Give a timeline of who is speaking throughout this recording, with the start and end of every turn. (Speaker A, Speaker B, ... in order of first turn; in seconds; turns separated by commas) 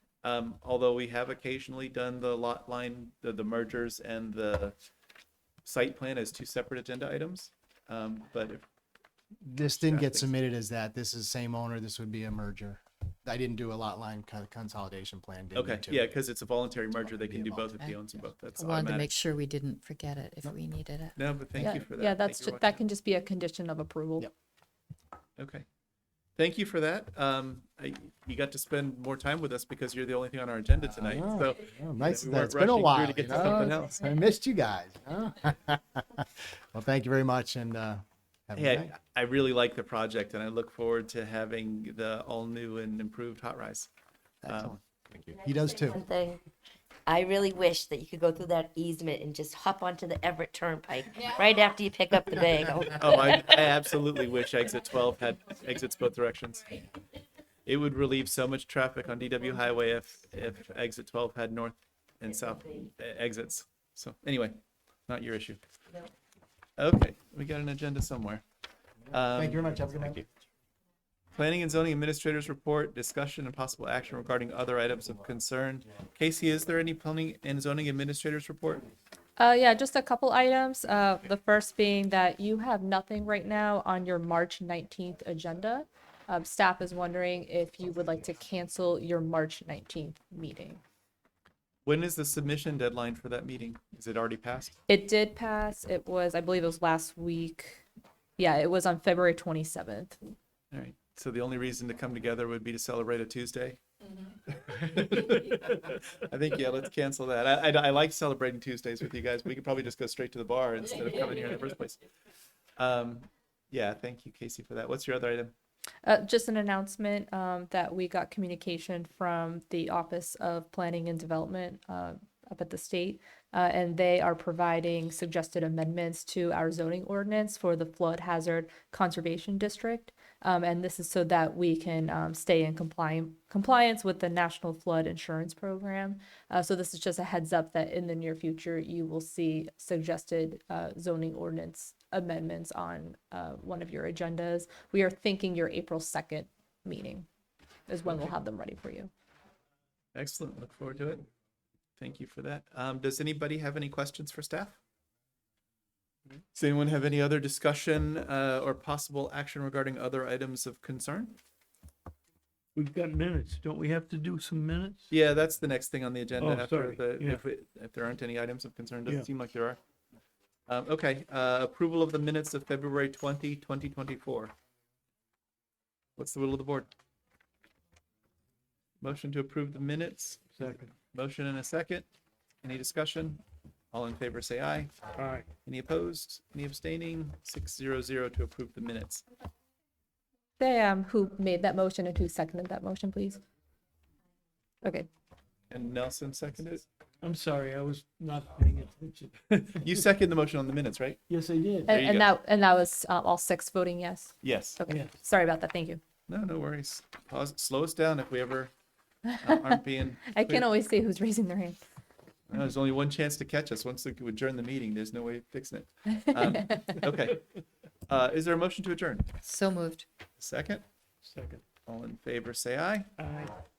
Speaker A: 0.2-4.8, Speaker A: 5.7-8.6, Speaker B: 9.4-16.1, Speaker A: 9.6-10.3, Speaker A: 15.6-19.1, Speaker B: 17.3-17.7, Speaker C: 17.8-21.3, Speaker A: 21.2-22.8, Speaker D: 21.6-24.3, Speaker A: 25.4-25.7, Speaker A: 26.4-34.0, Speaker B: 30.8-38.9, Speaker A: 38.6-43.9, Speaker B: 44.4-46.0, Speaker A: 44.5-44.8, Speaker E: 45.5-46.5, Speaker E: 47.1-53.7, Speaker A: 53.0-56.8, Speaker A: 57.7-65.6, Speaker A: 66.8-68.4, Speaker A: 69.1-70.3, Speaker B: 69.2-70.2, Speaker A: 71.3-78.9, Speaker D: 79.4-90.8, Speaker A: 91.8-94.8, Speaker D: 94.9-97.8, Speaker D: 98.4-100.2, Speaker A: 100.7-103.8, Speaker A: 104.5-112.0, Speaker A: 112.8-115.5, Speaker D: 116.0-147.3, Speaker D: 147.9-149.1, Speaker A: 150.2-151.3, Speaker A: 152.0-154.8, Speaker A: 156.5-161.4, Speaker F: 162.8-165.1, Speaker A: 165.1-169.8, Speaker F: 166.4-167.4, Speaker A: 170.7-174.5, Speaker A: 176.2-176.9, Speaker A: 179.0-182.1, Speaker F: 180.6-180.9, Speaker A: 182.6-184.9, Speaker F: 185.2-185.5, Speaker A: 185.6-189.2, Speaker D: 190.6-193.4, Speaker D: 194.8-195.1, Speaker A: 195.7-196.9, Speaker F: 197.2-200.0, Speaker A: 199.8-201.2, Speaker F: 201.3-202.0, Speaker A: 201.9-202.3, Speaker D: 201.9-206.0, Speaker A: 204.4-204.8, Speaker F: 204.9-205.2, Speaker A: 206.3-208.7, Speaker D: 209.3-211.8, Speaker A: 209.4-210.7, Speaker A: 212.5-217.4, Speaker A: 218.1-219.3, Speaker C: 219.4-220.1, Speaker A: 220.4-220.8, Speaker F: 221.2-221.6, Speaker A: 221.9-223.1, Speaker F: 223.2-223.5